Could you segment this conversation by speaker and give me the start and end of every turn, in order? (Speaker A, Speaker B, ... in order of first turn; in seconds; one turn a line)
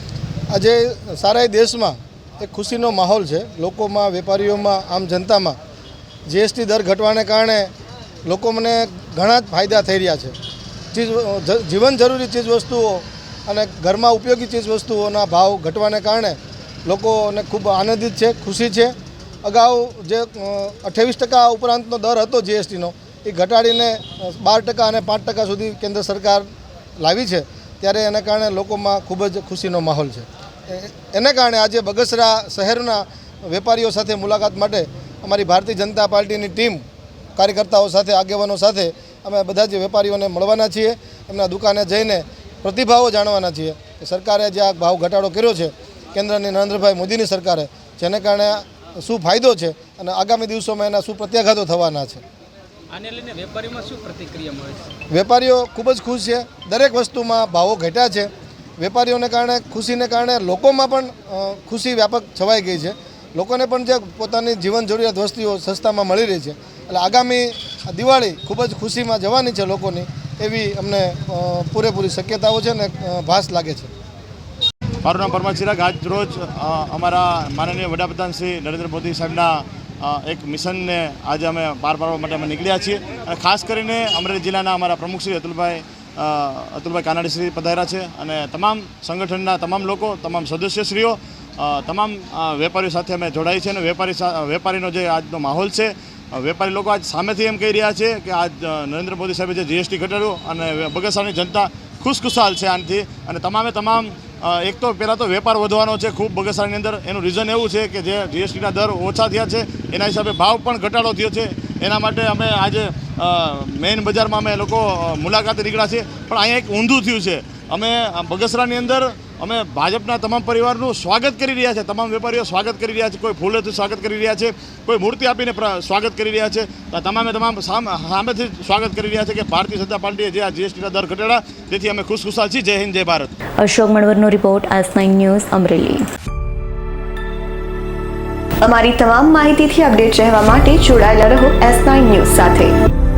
Speaker A: 0.5-5.6
Speaker A: 6.3-7.7
Speaker A: 8.2-10.3
Speaker A: 10.9-26.5
Speaker A: 27.0-36.8
Speaker A: 37.4-52.2
Speaker B: 52.9-54.9
Speaker A: 55.1-73.9
Speaker C: 75.0-133.3
Speaker D: 133.6-136.1
Speaker E: 138.6-142.8